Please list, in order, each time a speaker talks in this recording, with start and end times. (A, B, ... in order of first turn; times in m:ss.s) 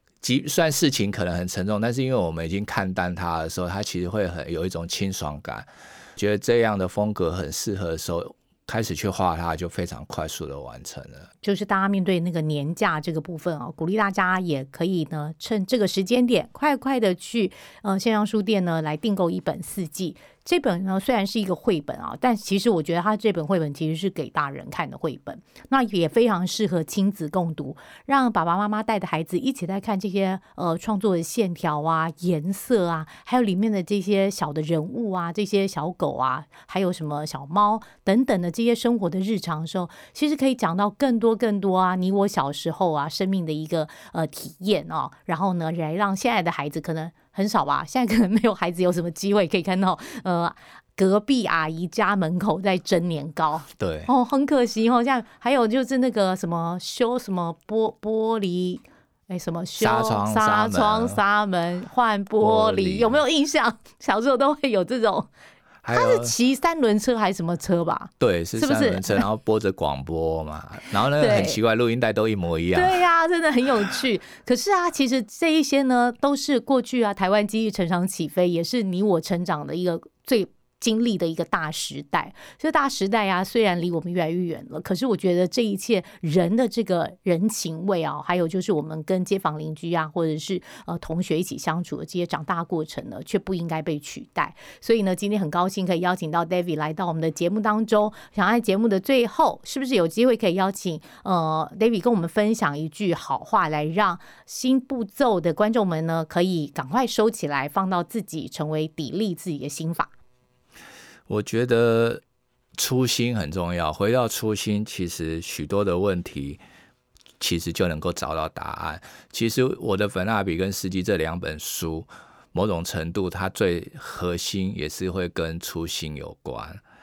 0:00.2-0:11.3 A
0:11.4-1:05.3 B
0:53.8-0:54.1 A
0:59.8-1:01.2 A
1:02.4-1:03.2 A
1:05.8-1:06.3 A
1:05.9-1:09.2 B
1:08.2-1:13.0 A
1:11.2-1:11.6 B
1:12.7-1:50.1 B
1:51.3-1:52.2 A
1:52.8-1:56.6 A
1:57.4-2:06.8 A